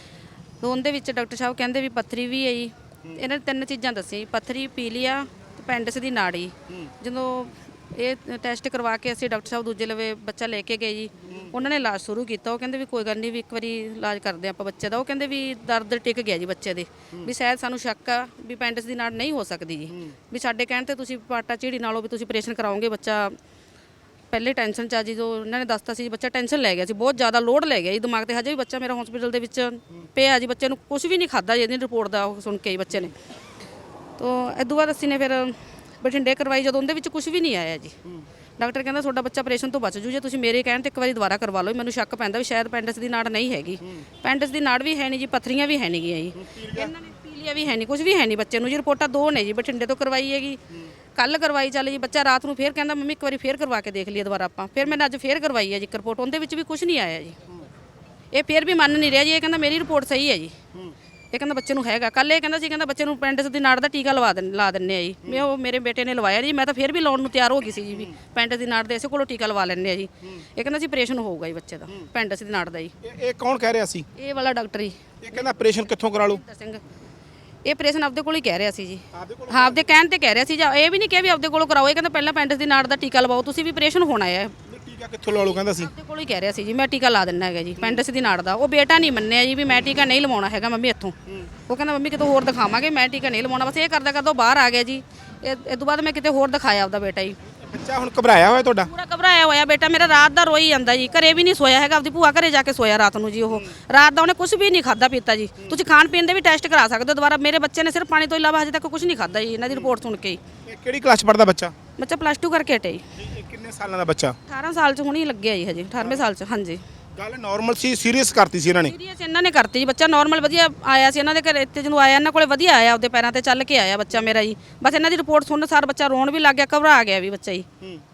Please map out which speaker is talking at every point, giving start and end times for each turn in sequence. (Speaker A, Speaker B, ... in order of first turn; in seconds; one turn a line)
Speaker A: 0.6-23.3
Speaker A: 24.3-33.1
Speaker A: 34.2-37.9
Speaker A: 38.6-50.6
Speaker B: 46.4-46.9
Speaker A: 51.1-57.4
Speaker A: 58.3-60.5
Speaker A: 61.3-72.9
Speaker B: 73.0-74.1
Speaker A: 74.2-75.0
Speaker B: 75.2-76.4
Speaker A: 75.8-76.8
Speaker A: 77.7-84.5
Speaker B: 79.1-79.8
Speaker B: 84.7-85.9
Speaker A: 85.8-91.1
Speaker A: 91.7-97.3
Speaker B: 97.7-98.9
Speaker A: 98.9-110.4
Speaker B: 110.7-111.7
Speaker A: 112.0-113.0
Speaker B: 113.2-114.3
Speaker A: 114.5-116.8
Speaker B: 117.2-118.9
Speaker A: 118.8-127.7